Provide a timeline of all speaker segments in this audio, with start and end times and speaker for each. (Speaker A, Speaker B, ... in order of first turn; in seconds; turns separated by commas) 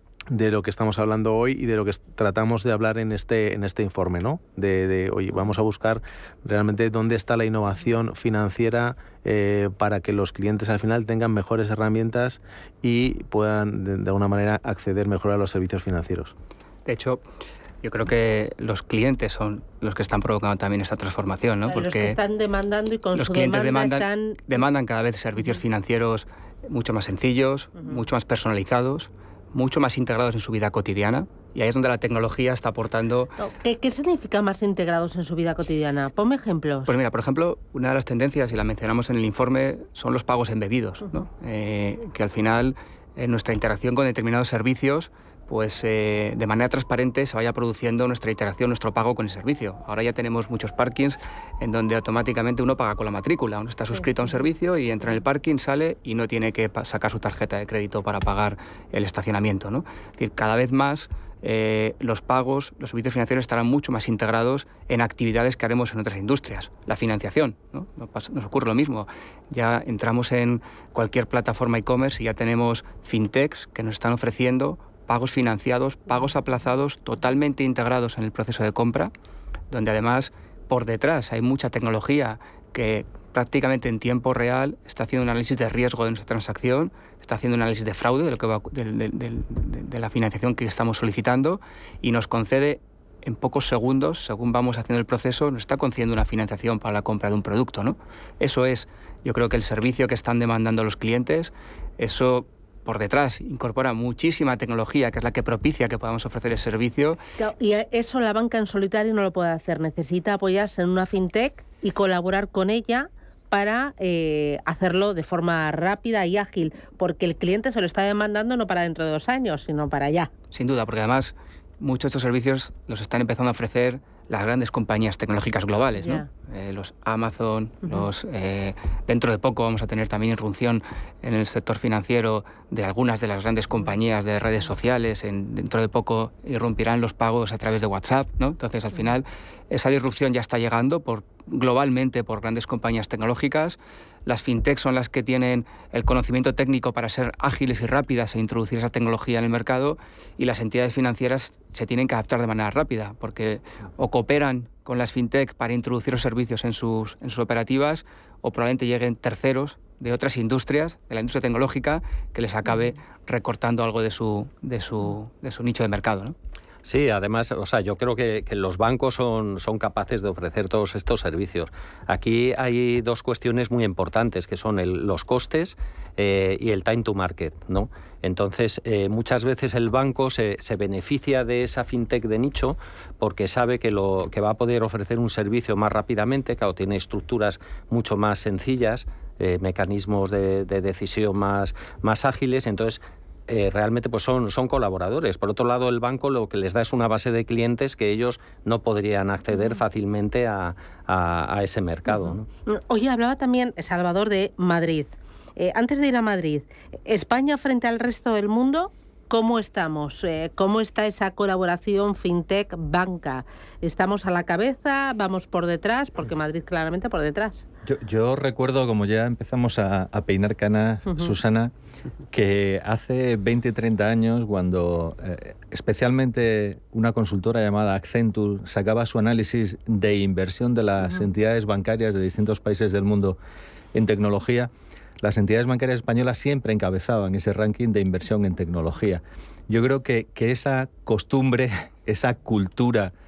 Speaker A: 0.3-16.3, Speaker B: 16.9-17.2, Speaker B: 17.8-22.2, Speaker C: 21.7-24.4, Speaker B: 23.1-33.3, Speaker C: 33.4-36.9, Speaker B: 36.9-79.1, Speaker B: 79.7-107.2, Speaker C: 107.4-120.3, Speaker B: 120.5-166.4, Speaker C: 126.0-126.3, Speaker D: 166.8-202.5, Speaker C: 202.7-217.6, Speaker E: 217.8-221.7, Speaker E: 222.3-233.4, Speaker E: 233.9-243.1